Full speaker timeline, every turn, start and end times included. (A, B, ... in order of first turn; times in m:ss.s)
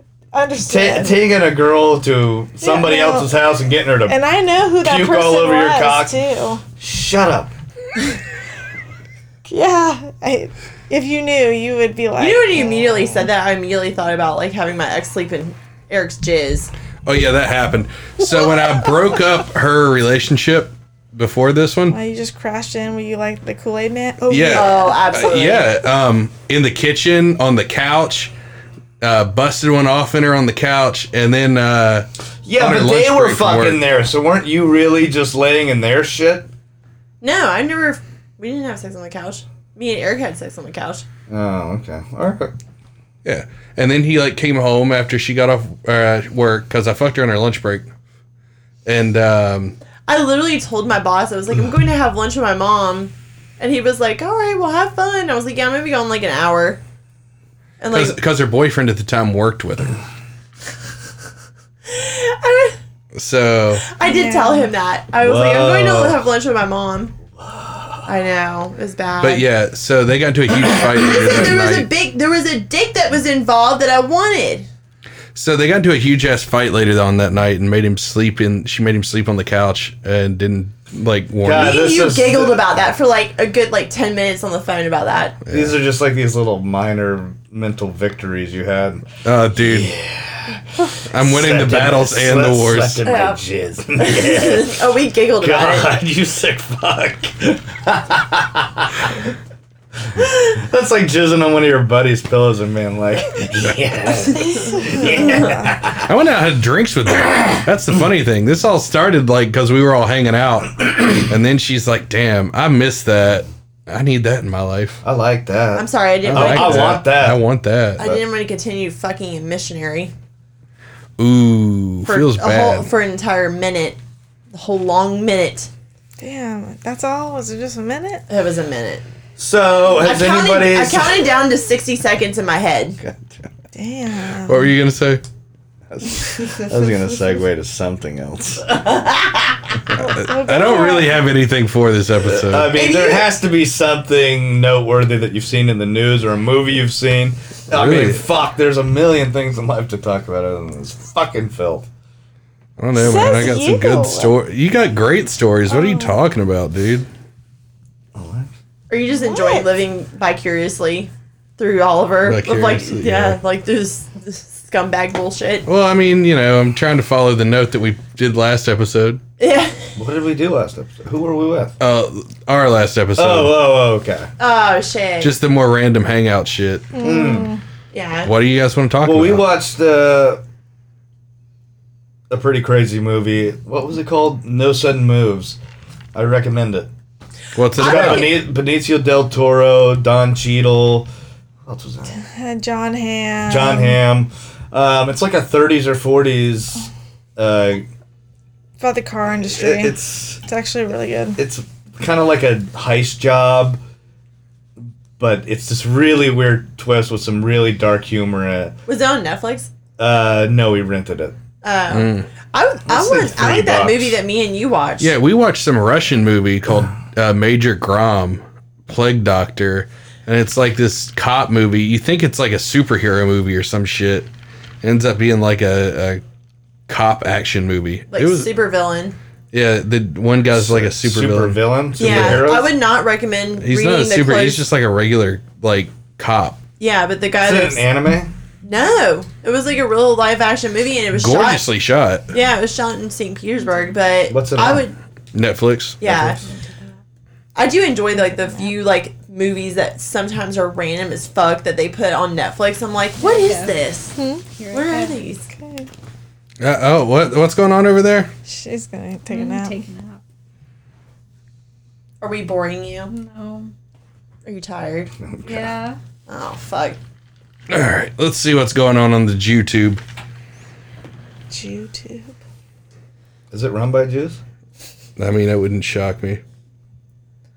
0:00.3-0:01.2 A
0:00.6-0:04.2 B
0:02.6-0:03.3 A
0:04.1-0:06.6 A
0:04.8-0:06.2 B
0:06.8-0:07.5 B
0:09.4-0:13.2 A
0:12.2-0:16.7 C
0:17.0-0:22.0 D
0:21.9-0:25.0 A
0:24.3-0:28.3 D
0:24.5-0:25.7 C
0:29.0-0:33.8 D
0:32.4-0:36.5 B
0:37.2-0:41.0 C
0:41.3-0:42.5 B
0:43.2-0:47.9 D
0:48.8-0:49.8 D
0:50.1-0:56.8 C
0:57.8-0:58.2 C
0:57.9-1:00.0 D
1:01.9-1:02.8 C
1:03.1-1:03.8 D
1:03.9-1:07.1 C
1:04.0-1:04.7 A
1:05.2-1:06.2 B
1:07.4-1:08.0 B
1:08.0-1:09.5 C
1:09.2-1:11.9 D
1:10.7-1:14.7 C
1:15.3-1:21.8 D
1:21.4-1:22.8 B
1:21.5-1:25.4 C
1:25.4-1:25.8 D
1:25.5-1:34.9 B
1:29.2-1:29.9 D
1:31.1-1:33.0 D
1:33.0-1:33.4 C
1:34.0-1:36.0 C
1:35.4-1:39.3 B
1:40.2-1:46.1 B
1:44.5-1:45.7 A
1:46.0-1:55.0 D
1:55.0-1:57.4 B
1:55.7-1:57.0 C
1:56.2-1:58.0 D
1:58.0-2:00.1 C
2:01.2-2:02.9 D
2:02.0-2:04.0 C
2:04.5-2:05.7 C
2:06.2-2:08.2 A
2:08.3-2:09.0 C
2:09.4-2:11.3 B
2:10.0-2:13.0 C
2:13.0-2:13.5 B
2:13.7-2:14.7 A
2:14.5-2:15.2 D
2:15.9-2:18.8 B
2:20.0-2:21.2 A
2:20.0-2:22.7 D
2:22.2-2:31.9 B
2:22.7-2:23.3 C
2:27.7-2:28.2 D
2:32.8-2:37.1 D
2:33.0-2:34.4 A
2:35.7-2:36.2 A
2:38.1-2:38.5 B
2:38.9-2:45.6 C
2:39.1-2:39.7 A
2:42.2-2:43.4 D
2:45.6-2:49.2 D
2:49.4-2:49.9 C
2:50.0-2:51.8 B
2:51.8-2:53.6 D
2:53.2-2:54.3 B
2:54.4-2:55.3 C
2:55.2-2:56.9 D
2:56.9-2:57.6 A
2:57.0-2:57.5 B
2:57.9-2:58.3 C
2:58.2-2:59.5 D
2:59.0-3:00.4 B
3:02.3-3:05.6 B
3:06.1-3:06.9 B
3:07.5-3:08.4 D
3:07.8-3:08.4 C
3:07.8-3:11.1 B
3:11.6-3:12.2 B
3:12.2-3:14.0 A
3:13.5-3:17.9 B
3:18.8-3:21.4 A
3:19.5-3:20.4 B
3:21.4-3:23.8 B
3:25.2-3:28.8 B
3:28.9-3:29.7 C
3:30.0-3:31.4 B
3:31.6-3:35.1 C
3:31.9-3:32.3 D
3:32.8-3:34.2 B
3:35.0-3:44.3 D
3:44.8-3:46.2 D
3:46.9-3:48.5 D
3:48.1-3:49.2 C
3:49.5-3:52.5 D
3:50.5-3:52.7 B
3:52.0-3:54.6 C
3:53.6-3:56.6 D
3:56.8-3:57.9 C
3:57.4-3:58.3 B
3:58.6-4:01.6 C
4:01.1-4:02.3 D
4:02.3-4:05.0 C
4:04.3-4:04.8 B
4:05.3-4:06.0 D
4:06.0-4:06.5 C
4:06.0-4:06.4 B
4:07.5-4:14.1 C
4:08.4-4:08.7 A
4:13.2-4:13.8 E
4:14.1-4:14.4 A
4:14.5-4:15.2 E
4:14.7-4:15.4 C
4:15.5-4:15.9 A
4:16.6-4:18.3 D
4:18.4-4:19.8 A
4:19.3-4:20.2 E
4:22.2-4:23.1 C
4:23.0-4:23.7 E
4:24.4-4:25.1 C
4:25.2-4:25.7 B
4:25.4-4:26.0 E
4:26.3-4:27.0 C
4:27.7-4:30.0 D
4:31.5-4:32.4 A
4:33.5-4:34.4 B
4:35.2-4:36.4 D